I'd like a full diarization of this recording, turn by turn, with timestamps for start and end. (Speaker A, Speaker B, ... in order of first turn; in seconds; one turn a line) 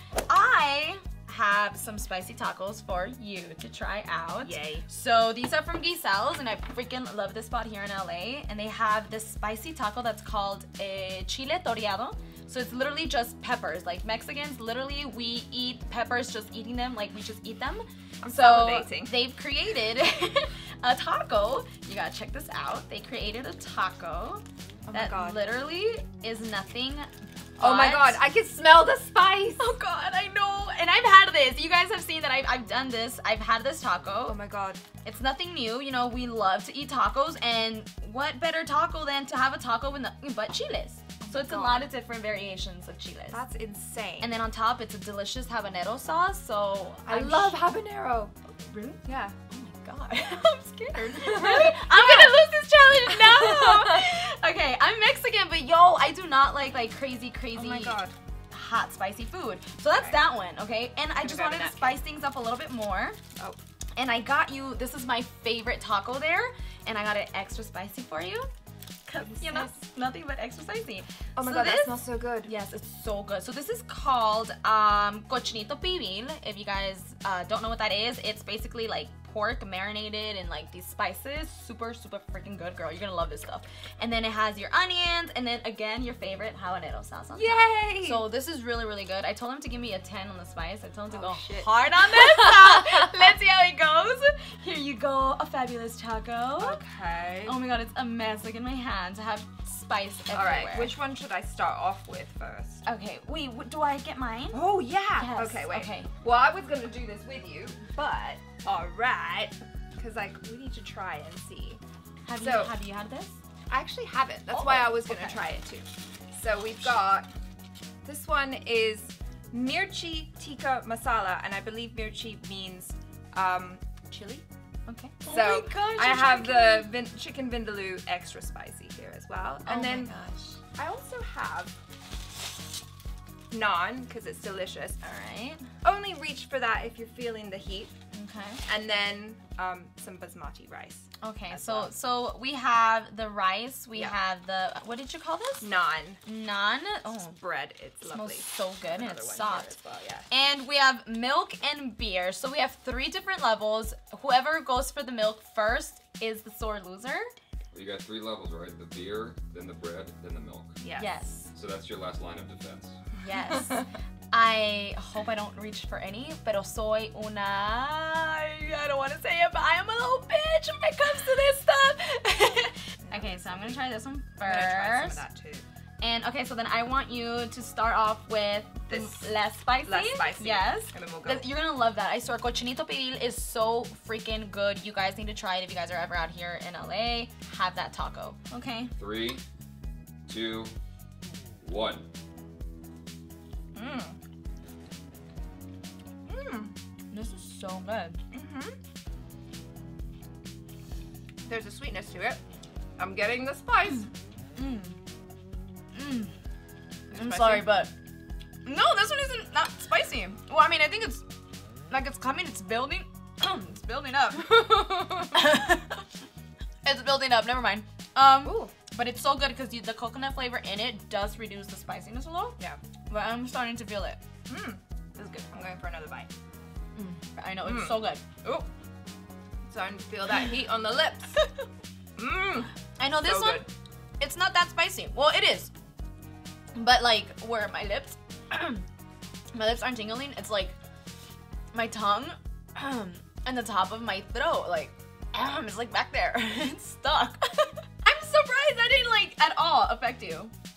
Speaker A: 0.3-28.2
Speaker B: 4.4-4.8
Speaker B: 18.2-19.1
Speaker B: 24.9-25.4
Speaker B: 27.6-29.7
Speaker A: 29.6-34.4
Speaker B: 34.2-34.8
Speaker A: 35.0-43.4
Speaker B: 41.2-41.9
Speaker B: 43.3-44.3
Speaker A: 44.2-47.6
Speaker B: 47.1-48.3
Speaker A: 48.5-63.2
Speaker B: 49.0-49.4
Speaker B: 50.9-52.3
Speaker B: 53.1-54.0
Speaker B: 57.5-58.1
Speaker B: 59.9-60.2
Speaker B: 61.1-62.0
Speaker A: 64.0-68.5
Speaker A: 69.1-96.8
Speaker B: 69.2-69.7
Speaker B: 71.3-72.5
Speaker B: 87.3-88.2
Speaker B: 91.1-92.8
Speaker B: 96.6-97.6
Speaker A: 97.5-100.9
Speaker B: 100.3-102.8
Speaker A: 102.8-106.1
Speaker B: 104.5-111.8
Speaker A: 112.2-113.4
Speaker B: 112.3-112.7
Speaker B: 113.7-117.3
Speaker A: 114.5-115.4
Speaker B: 118.0-124.4
Speaker A: 124.9-126.9
Speaker B: 125.2-130.1
Speaker A: 129.6-130.6
Speaker B: 130.8-131.7
Speaker B: 133.5-135.0
Speaker A: 135.0-135.6
Speaker B: 135.8-137.9
Speaker A: 138.1-138.6
Speaker B: 138.7-141.9
Speaker A: 141.2-145.7
Speaker B: 145.6-146.2
Speaker A: 146.2-147.4
Speaker B: 147.3-150.3
Speaker A: 148.0-149.7
Speaker A: 150.3-157.3
Speaker C: 157.7-160.8
Speaker B: 160.8-161.2
Speaker A: 161.0-161.5
Speaker C: 161.5-163.0
Speaker A: 163.2-175.2
Speaker B: 173.0-173.8
Speaker B: 174.4-175.6
Speaker A: 176.0-188.9
Speaker B: 178.9-179.3
Speaker B: 179.8-181.5
Speaker C: 188.9-189.4
Speaker C: 190.3-190.7
Speaker C: 191.6-192.1
Speaker B: 193.7-194.2
Speaker B: 196.2-196.7
Speaker A: 197.1-198.2
Speaker B: 198.3-198.8
Speaker B: 201.4-202.4
Speaker B: 203.0-204.1
Speaker A: 204.6-205.0
Speaker A: 205.9-206.3
Speaker B: 207.1-207.8
Speaker A: 207.1-207.9
Speaker A: 208.6-211.2
Speaker A: 211.9-216.0
Speaker B: 214.6-215.2
Speaker A: 216.8-222.6
Speaker B: 218.4-218.7
Speaker A: 223.1-224.2
Speaker B: 224.5-224.8
Speaker A: 225.2-225.5
Speaker B: 225.5-226.3
Speaker A: 226.9-228.2
Speaker B: 227.6-228.7
Speaker B: 229.7-231.4
Speaker B: 232.2-233.7
Speaker A: 233.0-233.7
Speaker A: 234.2-235.7
Speaker A: 236.7-238.8
Speaker A: 239.5-240.8
Speaker A: 241.7-250.5